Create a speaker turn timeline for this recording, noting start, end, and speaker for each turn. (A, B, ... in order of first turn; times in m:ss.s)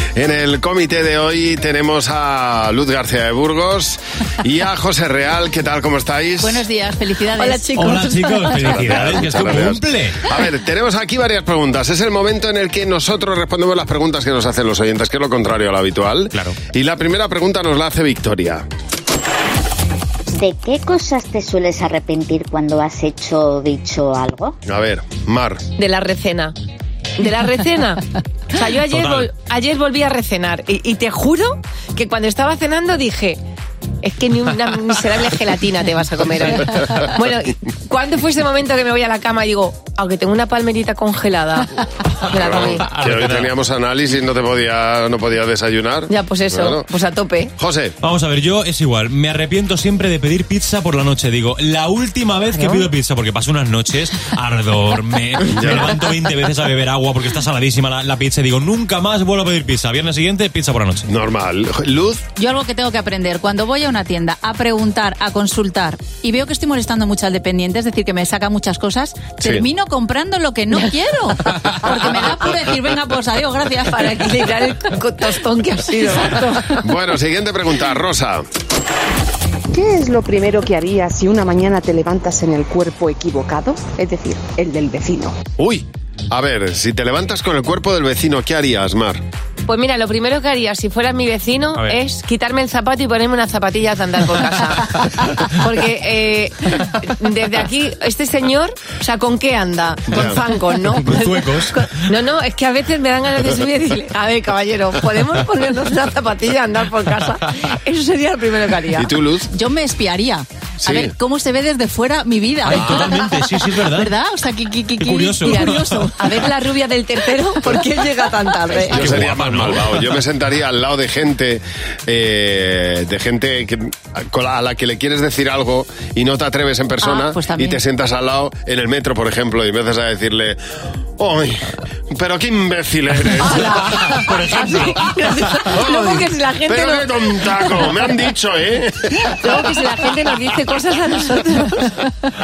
0:00.2-0:06.6 A
0:06.4-0:08.1 B
0:07.4-0:09.1 C
0:07.7-0:10.2 D
0:08.6-0:18.6 A
0:16.3-0:16.6 D
0:20.3-0:24.6 E
0:24.6-0:25.6 A
0:25.8-0:26.5 C
0:27.2-0:33.4 C
0:28.8-0:29.3 D
0:34.0-0:42.9 C
0:42.3-0:46.9 A
0:42.4-0:43.5 D
0:46.1-0:47.5 C
0:47.6-0:47.9 A
0:48.0-1:01.0 D
0:52.5-0:52.9 C
0:55.5-0:55.9 A
1:01.1-1:02.2 A
1:02.4-1:14.3 B
1:14.0-1:16.8 C
1:16.7-1:18.4 A
1:19.7-1:25.4 F
1:25.6-1:29.2 A
1:29.6-1:49.1 C
1:40.1-1:40.4 A
1:40.9-1:42.0 D
1:48.9-1:49.5 A
1:49.5-1:55.8 B
1:50.8-1:51.1 A
1:52.6-1:54.1 D
1:52.8-1:53.1 A
1:55.0-1:56.1 D
1:55.4-1:59.1 C
1:58.9-2:00.2 D
1:58.9-2:10.6 A
2:07.1-2:07.7 B
2:07.3-2:07.6 C
2:11.2-2:14.1 A
2:13.4-2:18.0 C
2:13.8-2:15.1 D
2:15.6-2:19.7 A
2:19.2-2:22.3 C